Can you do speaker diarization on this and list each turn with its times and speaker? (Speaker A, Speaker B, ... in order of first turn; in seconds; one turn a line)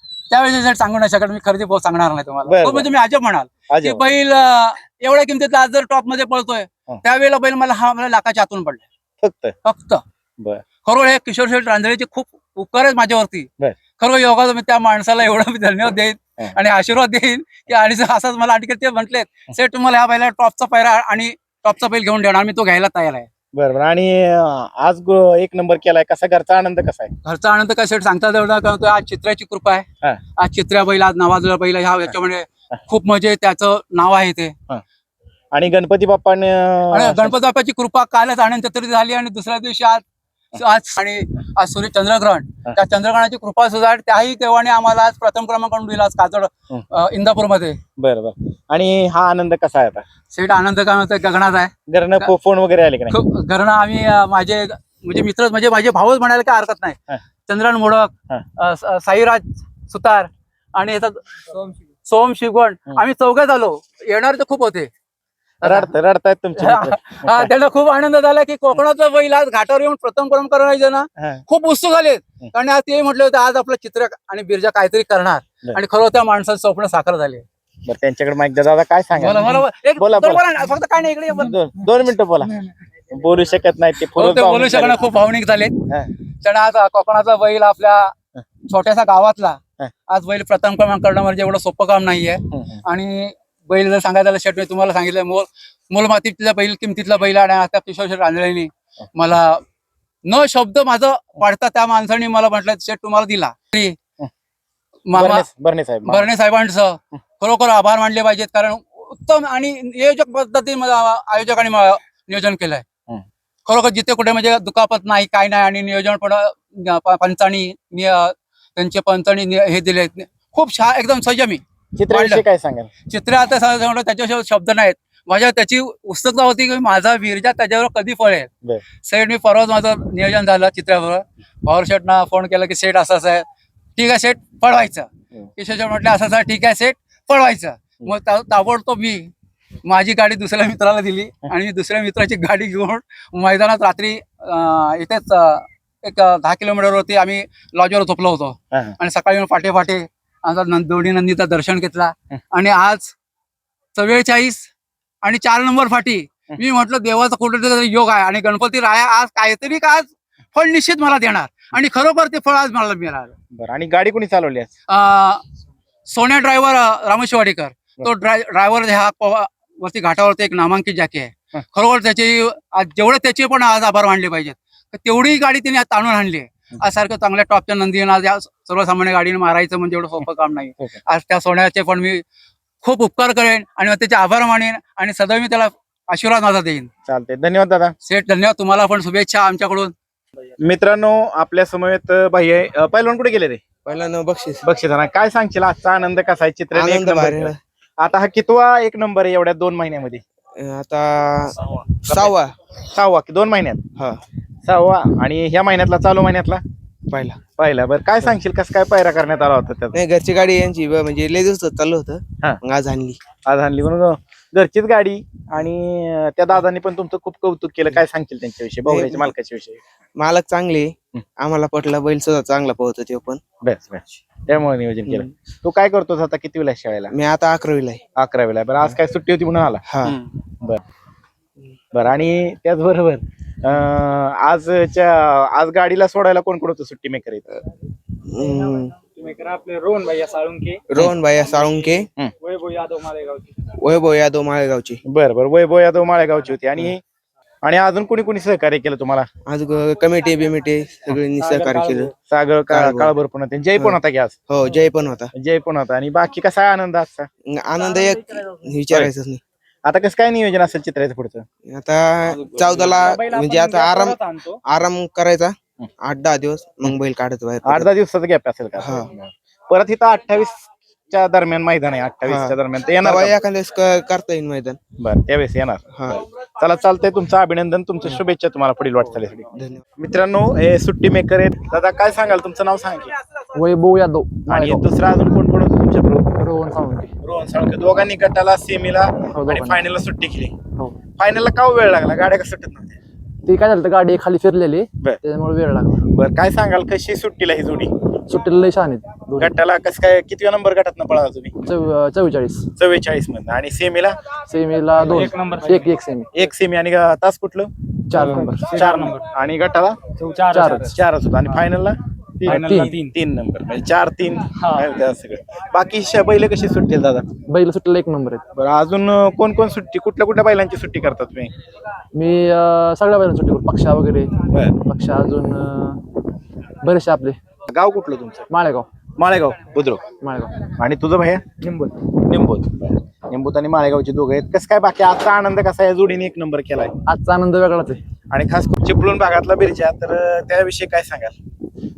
Speaker A: 0.3-8.8
Speaker B: 2.5-2.9
Speaker B: 3.7-4.0
Speaker B: 9.2-9.5
Speaker A: 9.6-10.0
Speaker A: 10.8-23.3
Speaker B: 23.5-27.1
Speaker A: 27.2-29.9
Speaker A: 30.4-34.5
Speaker B: 35.5-37.3
Speaker A: 36.9-40.0
Speaker A: 40.5-47.8
Speaker B: 48.0-50.0
Speaker A: 50.3-52.3
Speaker B: 51.9-53.1
Speaker A: 53.1-64.9
Speaker A: 65.6-65.9
Speaker B: 65.6-67.5
Speaker A: 66.6-77.4
Speaker B: 77.9-80.4
Speaker A: 79.1-81.6
Speaker B: 81.4-82.5
Speaker B: 83.1-85.0
Speaker A: 84.0-85.8
Speaker A: 86.4-88.1
Speaker A: 88.7-99.6
Speaker B: 92.5-92.8
Speaker A: 100.2-104.0
Speaker A: 105.1-105.5
Speaker B: 105.1-106.3
Speaker A: 106.1-112.8
Speaker A: 113.7-122.4
Speaker B: 122.0-122.9
Speaker A: 123.1-128.5
Speaker A: 129.0-139.3
Speaker A: 139.8-153.1
Speaker A: 153.9-154.7
Speaker A: 155.2-163.3
Speaker B: 163.5-164.7
Speaker A: 164.9-165.4
Speaker A: 166.1-182.2
Speaker A: 182.8-186.9
Speaker B: 187.1-187.9
Speaker A: 188.0-189.9
Speaker B: 190.6-193.6
Speaker C: 193.8-194.6
Speaker B: 194.6-200.2
Speaker C: 196.7-197.6
Speaker C: 200.6-201.6
Speaker B: 202.1-202.3
Speaker C: 202.1-202.5
Speaker B: 202.9-203.8
Speaker B: 204.6-206.6
Speaker C: 207.1-207.4
Speaker B: 207.6-210.0
Speaker C: 209.9-213.2
Speaker B: 213.4-219.8
Speaker C: 218.9-219.3
Speaker C: 220.2-223.4
Speaker B: 223.6-227.1
Speaker C: 227.1-228.0
Speaker B: 228.2-230.8
Speaker C: 229.9-230.2
Speaker B: 231.9-237.5
Speaker C: 238.2-238.9
Speaker D: 239.1-240.8
Speaker C: 240.9-242.1
Speaker D: 242.4-243.5
Speaker C: 243.8-245.0
Speaker B: 245.1-247.0
Speaker B: 247.6-249.3
Speaker C: 249.5-252.1
Speaker D: 251.4-252.1
Speaker B: 252.3-254.4
Speaker C: 252.7-253.1
Speaker C: 254.5-255.3
Speaker B: 255.4-257.3
Speaker C: 257.4-259.4
Speaker B: 259.8-261.4
Speaker C: 261.7-267.9
Speaker D: 262.4-264.6
Speaker B: 267.6-273.3
Speaker C: 268.8-269.1
Speaker C: 272.2-274.8
Speaker B: 275.0-283.1
Speaker C: 275.9-276.2
Speaker C: 279.6-279.8
Speaker E: 283.5-284.8
Speaker B: 284.5-286.3
Speaker E: 286.4-287.1
Speaker B: 287.2-290.5
Speaker E: 289.3-289.8
Speaker B: 291.2-293.0
Speaker E: 293.4-296.0
Speaker B: 296.1-297.9
Speaker E: 298.3-299.5
Speaker B: 299.4-301.5
Speaker E: 301.6-302.7
Speaker B: 302.8-304.1
Speaker E: 304.5-306.3
Speaker D: 305.1-305.9
Speaker B: 306.3-310.0
Speaker E: 308.1-308.8
Speaker D: 308.7-309.2
Speaker D: 310.2-310.9
Speaker E: 310.5-310.9
Speaker B: 310.6-317.2
Speaker E: 312.4-312.9
Speaker D: 312.5-313.1
Speaker D: 314.6-314.8
Speaker E: 317.5-318.4
Speaker B: 318.6-321.5
Speaker E: 322.1-324.3
Speaker B: 324.5-324.8
Speaker E: 324.8-326.0
Speaker E: 326.8-327.4
Speaker B: 327.7-328.5
Speaker E: 328.5-328.9
Speaker B: 329.2-330.1
Speaker E: 330.2-330.6
Speaker B: 330.7-331.4
Speaker D: 331.6-331.9
Speaker B: 332.2-336.9
Speaker E: 337.1-338.0
Speaker B: 338.3-341.3